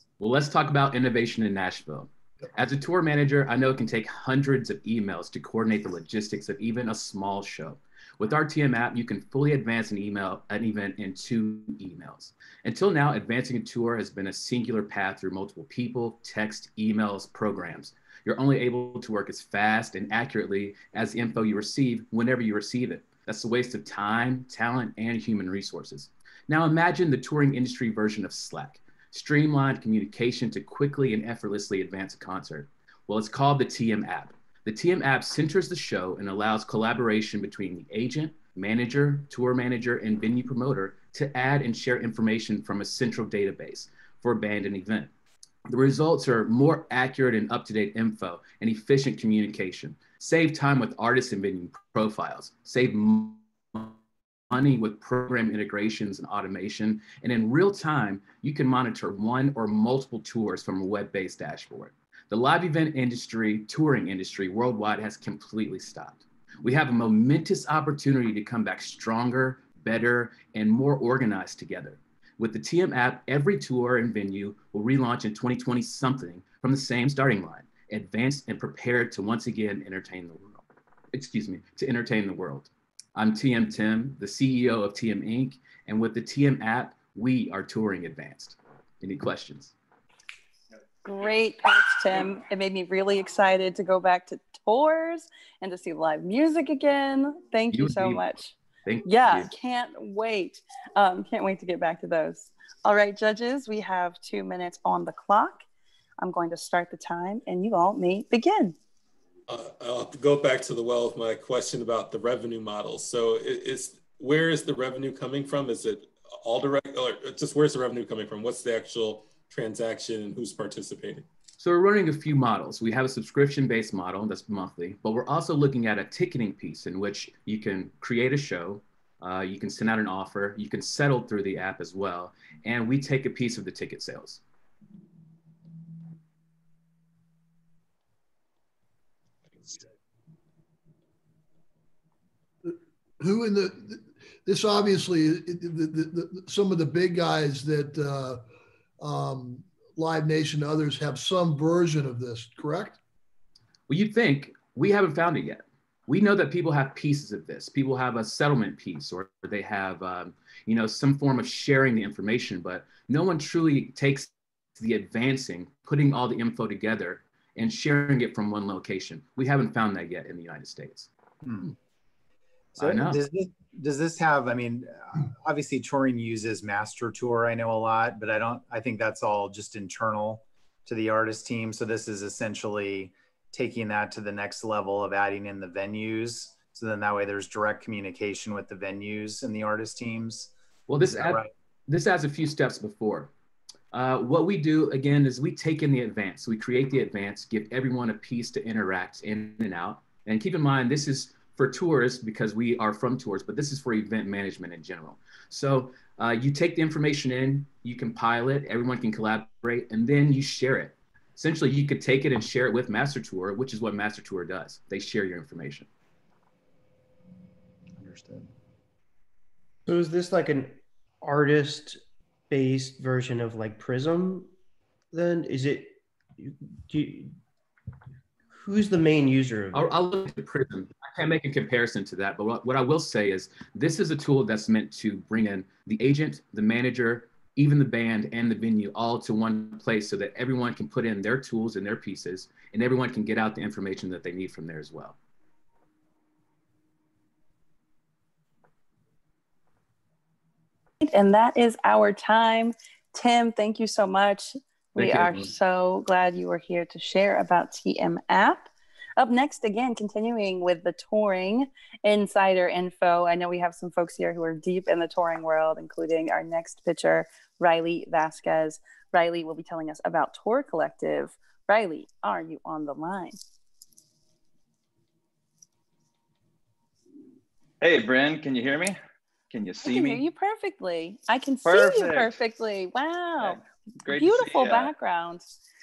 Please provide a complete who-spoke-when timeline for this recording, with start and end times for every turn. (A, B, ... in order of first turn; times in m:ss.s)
0:00.2-0:45.1 A
0:45.7-0:54.0 A
0:54.5-1:29.7 A
1:31.0-1:45.6 B
1:37.7-1:38.3 A
1:38.8-1:39.5 A
1:46.2-1:48.7 B
1:49.5-2:01.2 C
2:01.6-2:14.4 A
2:22.6-2:28.4 D
2:29.0-2:33.0 D
2:33.9-2:51.1 A
2:51.4-2:51.7 E
2:52.8-2:53.2 A
2:52.8-3:10.5 E
3:10.9-3:13.3 A
3:11.1-3:11.5 E
3:13.9-3:35.9 A
3:39.8-3:44.5 F
3:45.1-3:47.3 F
3:48.5-3:49.9 F
3:49.7-4:05.2 A
4:11.0-4:33.4 B
4:15.0-4:15.5 A
4:37.8-4:39.0 G
4:39.5-4:40.2 G
4:39.8-4:43.6 B
4:41.6-4:42.3 G
4:43.4-4:44.9 G
4:44.1-4:45.4 B